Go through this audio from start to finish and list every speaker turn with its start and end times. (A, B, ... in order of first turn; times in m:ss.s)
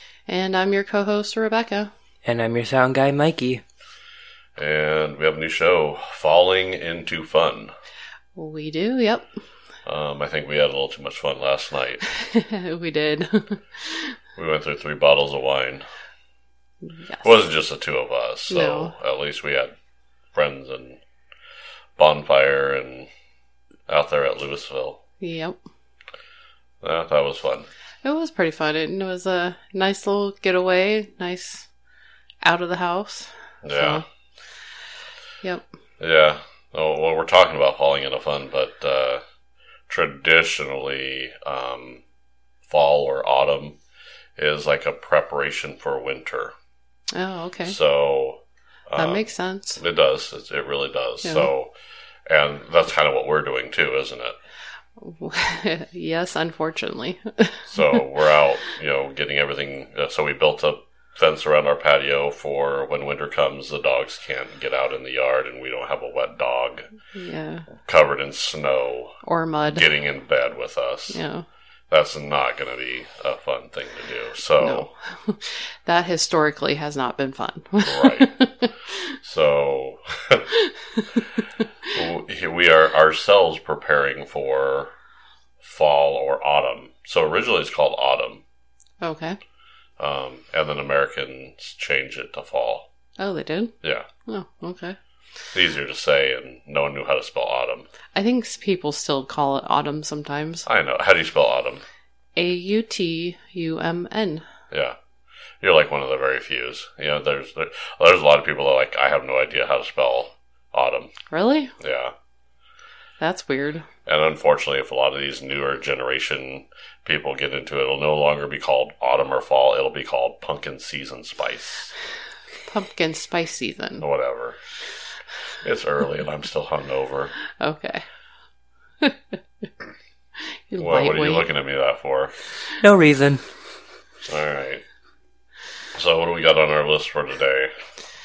0:00.3-0:01.9 A
0:02.2-0:03.6 B
0:04.6-0:07.7 C
0:08.4-0:09.3 A
0:09.8-0:12.0 C
0:12.1-0:14.2 A
0:14.4-0:15.8 C
0:17.0-0:17.3 A
0:17.2-0:19.7 C
0:18.5-0:18.9 A
0:20.3-0:21.0 C
0:22.0-0:23.1 C
0:23.9-0:25.0 C
0:25.2-0:25.6 A
0:26.8-0:27.7 C
0:28.0-0:31.7 A
0:32.4-0:34.0 A
0:33.6-0:34.0 C
0:36.0-0:39.2 C
0:39.9-0:42.0 C
0:42.7-0:43.8 C
0:44.4-0:46.5 C
0:47.1-0:47.8 A
0:47.6-0:51.7 C
0:49.0-0:49.8 A
0:51.2-0:51.5 A
0:52.3-0:54.4 C
0:55.0-0:58.0 A
0:57.7-1:06.9 C
1:07.1-1:07.7 A
1:07.8-1:09.2 C
1:09.2-1:09.9 A
1:09.7-1:11.2 C
1:11.1-1:11.4 A
1:11.9-1:14.9 C
1:14.6-1:19.1 A
1:17.8-1:18.3 C
1:19.2-1:20.5 C
1:20.5-1:21.4 A
1:21.9-1:24.9 C
1:25.6-1:28.4 C
1:29.0-1:29.4 A
1:30.0-1:32.9 C
1:33.2-1:33.7 A
1:33.8-1:34.1 C
1:34.2-1:35.0 A
1:35.5-1:37.9 C
1:38.1-1:40.7 A
1:40.6-1:41.8 C
1:42.4-1:44.4 A
1:44.7-1:45.0 C
1:45.6-1:51.1 C
1:51.3-1:51.7 A
1:51.8-1:52.1 C
1:53.2-1:53.9 A
1:54.0-2:01.9 C
2:02.7-2:04.0 A
2:04.0-2:04.6 C
2:05.6-2:07.3 C
2:07.6-2:08.0 A
2:09.0-2:09.3 A
2:10.7-2:11.4 A
2:10.8-2:12.3 C
2:12.8-2:13.4 B
2:14.3-2:14.8 C
2:15.9-2:17.7 C